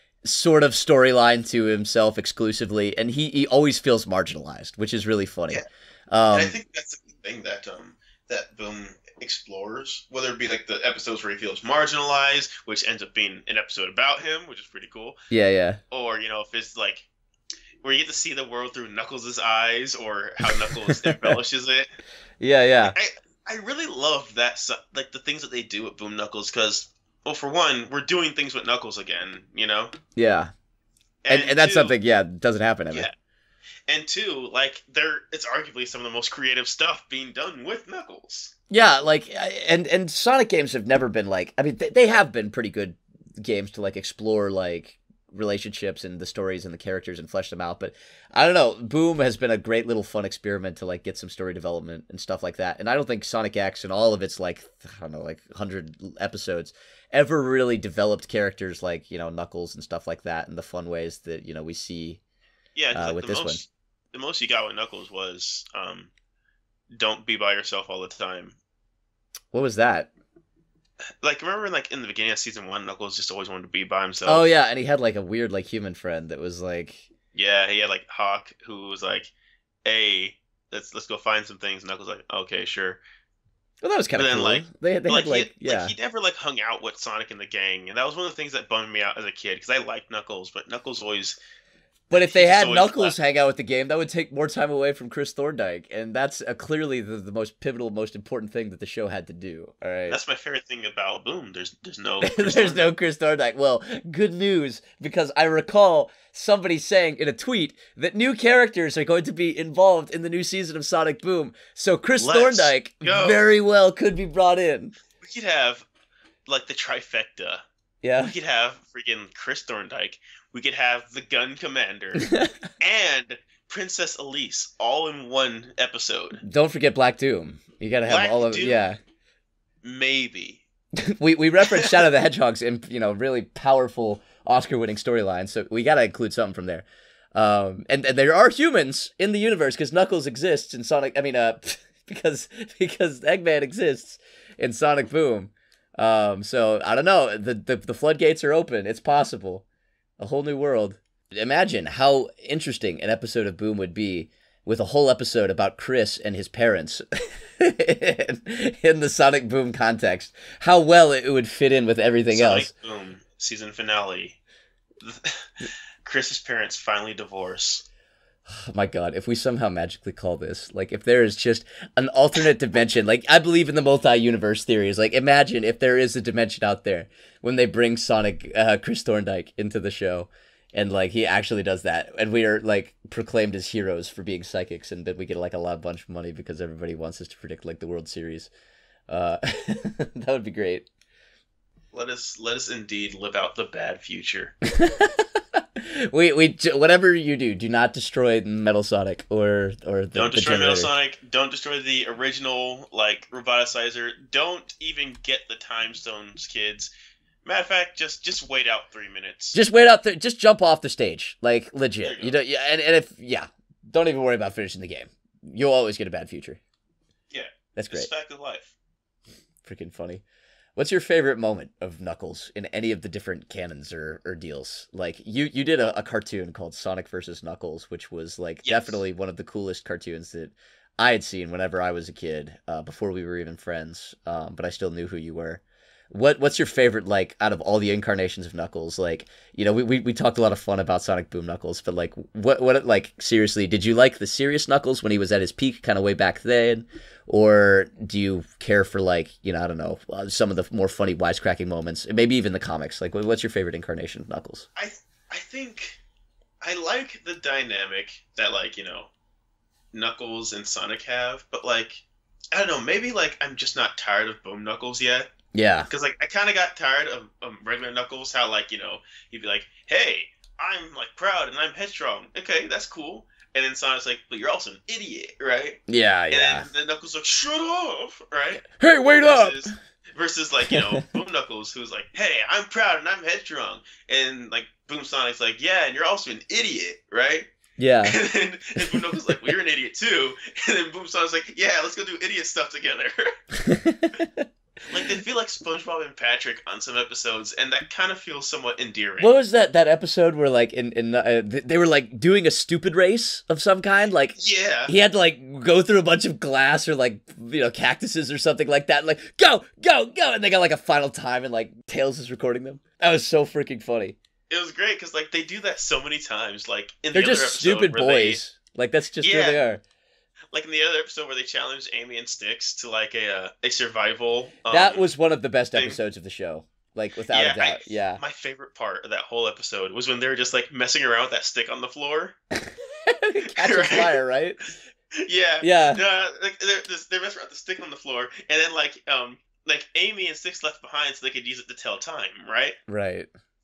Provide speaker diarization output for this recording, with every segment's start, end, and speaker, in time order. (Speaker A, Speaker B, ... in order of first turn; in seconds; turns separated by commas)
Speaker A: 0.2-6.5, Speaker B: 6.3-15.2, Speaker A: 15.3-15.8, Speaker B: 15.9-17.1, Speaker B: 17.8-21.9, Speaker A: 20.4-21.4, Speaker A: 22.4-22.9, Speaker B: 22.8-29.9, Speaker A: 30.2-30.5, Speaker B: 31.2-31.9, Speaker A: 31.3-33.1, Speaker B: 33.9-38.5, Speaker A: 38.7-62.2, Speaker B: 62.8-66.1, Speaker A: 62.9-63.6, Speaker B: 66.9-68.6, Speaker A: 69.5-70.1, Speaker B: 71.2-74.5, Speaker A: 74.2-77.1, Speaker B: 77.3-79.3, Speaker B: 79.8-83.0, Speaker A: 83.8-85.9, Speaker B: 84.1-91.4, Speaker A: 92.1-100.2, Speaker B: 92.1-93.2, Speaker B: 100.1-102.9, Speaker A: 102.2-115.0, Speaker B: 112.2-113.4, Speaker B: 115.2-115.8, Speaker B: 116.5-117.6, Speaker A: 118.0-118.3, Speaker B: 118.2-126.4, Speaker A: 122.2-122.5, Speaker A: 126.4-129.0, Speaker B: 128.1-128.8, Speaker B: 129.8-130.6, Speaker A: 131.1-149.6, Speaker A: 150.2-162.7, Speaker B: 162.3-164.4, Speaker B: 165.0-167.8, Speaker A: 168.5-188.5, Speaker A: 189.1-190.9, Speaker B: 191.9-194.6, Speaker A: 194.7-200.9, Speaker B: 200.2-206.9, Speaker B: 207.4-209.6, Speaker A: 209.5-216.6, Speaker B: 212.0-212.4, Speaker B: 217.3-218.7, Speaker A: 217.8-218.1, Speaker A: 219.6-220.2, Speaker A: 220.8-254.7, Speaker B: 228.6-229.0, Speaker B: 254.8-256.0, Speaker B: 256.6-259.1, Speaker B: 259.9-265.3, Speaker A: 265.5-265.9, Speaker B: 265.9-275.8, Speaker A: 275.9-276.7, Speaker B: 276.3-278.7, Speaker A: 278.8-279.7, Speaker B: 279.2-287.5, Speaker A: 280.7-281.0, Speaker A: 287.8-288.2, Speaker B: 288.0-293.2, Speaker A: 288.8-289.5, Speaker A: 293.6-294.5, Speaker B: 294.9-299.3, Speaker A: 299.2-314.2, Speaker B: 304.4-304.9, Speaker B: 314.5-318.4, Speaker A: 317.1-319.8, Speaker B: 319.2-319.6, Speaker B: 320.5-325.1, Speaker A: 324.7-328.2, Speaker B: 325.7-326.0, Speaker B: 327.3-332.4, Speaker A: 332.6-334.6, Speaker B: 333.5-334.2, Speaker B: 335.2-342.8, Speaker A: 335.6-336.0, Speaker A: 342.9-343.3